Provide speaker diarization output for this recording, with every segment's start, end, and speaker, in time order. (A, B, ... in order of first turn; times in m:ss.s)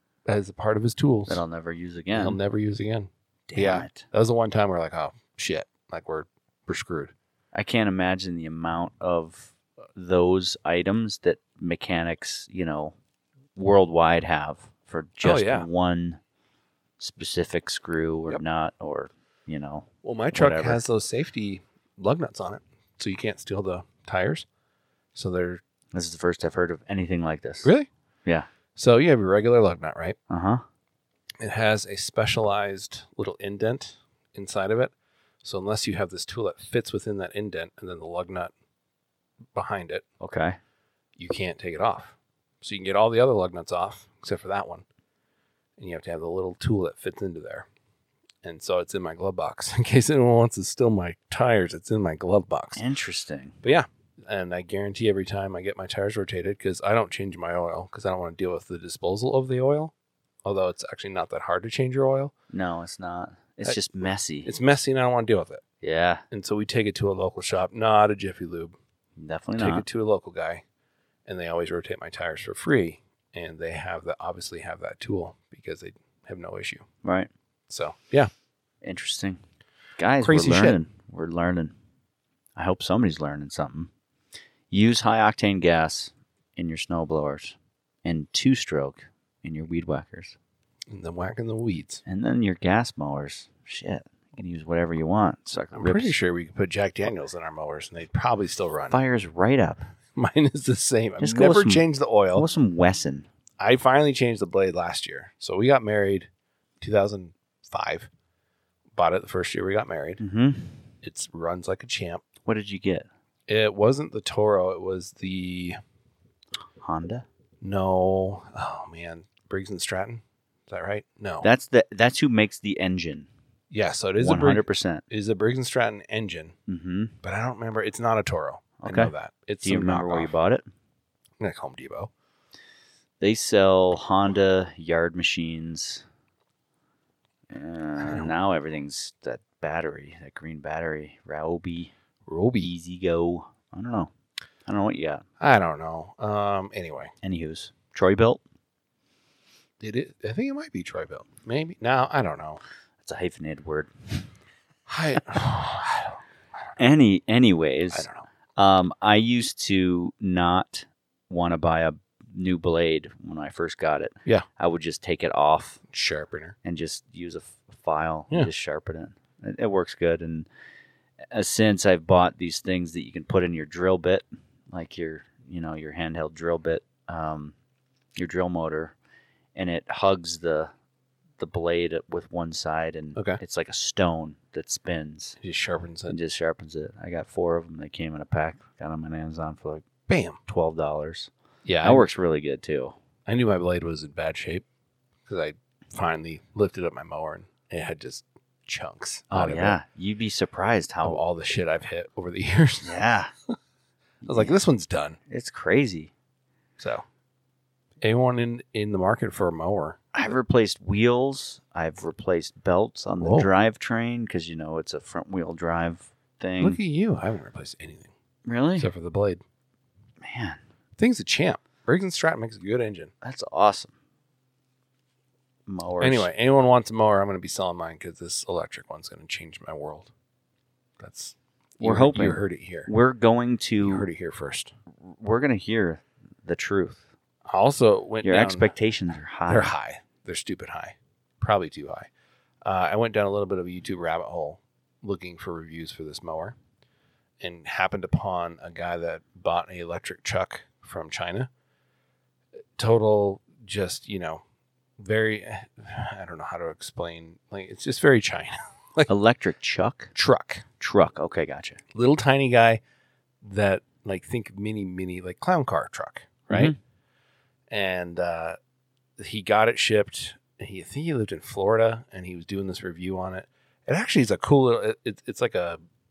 0:00.3-0:01.4 A
0:01.3-0:02.4 B
0:02.2-0:07.1 A
0:03.5-0:04.1 B
0:07.5-0:13.0 B
0:13.6-0:16.2 B
0:15.2-0:15.7 A
0:17.0-0:20.8 B
0:20.0-0:24.5 A
0:25.2-0:25.6 A
0:25.9-0:27.7 B
0:28.8-0:30.2 A
0:30.3-0:30.6 B
0:31.4-0:34.9 A
0:35.4-0:38.5 A
0:39.5-0:40.0 A
0:40.2-0:40.6 B
0:41.2-0:44.8 A
0:45.8-0:47.7 A
0:48.4-0:52.8 A
0:52.8-0:53.6 B
0:53.6-0:59.9 A
1:00.4-1:02.3 A
1:02.5-1:04.5 B
1:04.4-1:05.6 A
1:05.8-1:06.2 B
1:06.3-1:08.8 A
1:09.2-1:09.8 B
1:09.6-1:10.6 A
1:11.3-1:16.8 A
1:17.0-1:17.3 B
1:17.7-1:18.3 A
1:18.8-1:19.4 B
1:20.0-1:21.7 B
1:20.2-1:20.8 A
1:22.6-1:23.9 B
1:24.7-1:30.4 B
1:30.9-1:32.0 A
1:32.1-1:36.2 B
1:35.7-1:39.0 A
1:38.9-1:39.9 B
1:40.2-1:42.5 A
1:41.2-1:43.3 B
1:43.6-1:46.3 A
1:46.8-1:48.1 A
1:48.9-1:50.2 A
1:50.2-1:50.8 B
1:51.0-1:52.2 A
1:52.4-1:53.1 B
1:53.5-1:55.8 A
1:56.8-1:57.2 B
1:57.6-2:01.5 A
2:01.4-2:03.3 B
2:03.7-2:06.5 A
2:04.2-2:05.0 B
2:06.7-2:07.2 B
2:07.2-2:10.3 A
2:08.8-2:09.1 B
2:09.6-2:10.6 B
2:11.4-2:12.1 A
2:13.2-2:16.0 B
2:17.5-2:21.9 B
2:18.0-2:18.3 A
2:22.3-2:22.7 A
2:22.6-2:24.1 B
2:24.7-2:25.2 B
2:25.4-2:27.1 A
2:27.2-2:28.4 B
2:29.8-2:32.6 A
2:33.0-2:34.3 B
2:34.9-2:36.2 A
2:36.8-2:45.8 B
2:37.9-2:38.3 A
2:45.9-2:46.6 A
2:46.6-2:50.5 B
2:51.3-2:57.5 B
2:58.2-2:59.0 B
2:59.6-3:00.7 B
3:01.4-3:05.4 B
3:03.2-3:03.4 A
3:05.4-3:06.2 A
3:06.1-3:09.9 B
3:10.1-3:10.4 A
3:10.5-3:11.3 B
3:11.6-3:12.1 A
3:11.8-3:13.0 B
3:13.3-3:14.6 A
3:15.3-3:19.8 A
3:19.3-3:21.2 B
3:21.0-3:23.0 A
3:22.8-3:23.3 B
3:24.2-3:24.5 B
3:24.2-3:25.2 A
3:25.3-3:26.1 B
3:26.8-3:27.0 A
3:28.0-3:30.3 A
3:30.1-3:36.8 B
3:33.2-3:33.5 A
3:36.6-3:38.1 A
3:38.5-3:38.9 B
3:38.8-3:39.4 A
3:40.2-3:40.6 B
3:41.0-3:43.1 A
3:43.2-3:43.9 B
3:45.7-3:46.3 B
3:46.0-3:50.1 A
3:51.0-3:52.9 A
3:51.8-3:54.1 B
3:53.8-3:54.7 A
3:55.0-3:57.0 B
3:57.5-3:58.7 A
3:58.2-3:59.7 B
3:59.5-4:02.1 A
4:02.6-4:06.6 A
4:07.4-4:11.5 A
4:12.8-4:14.4 A
4:15.0-4:19.1 A
4:19.1-4:20.1 B
4:20.2-4:20.6 A
4:20.8-4:21.8 B
4:21.9-4:22.8 A
4:23.4-4:26.7 A
4:26.5-4:26.8 B
4:27.7-4:28.6 A
4:29.2-4:35.8 A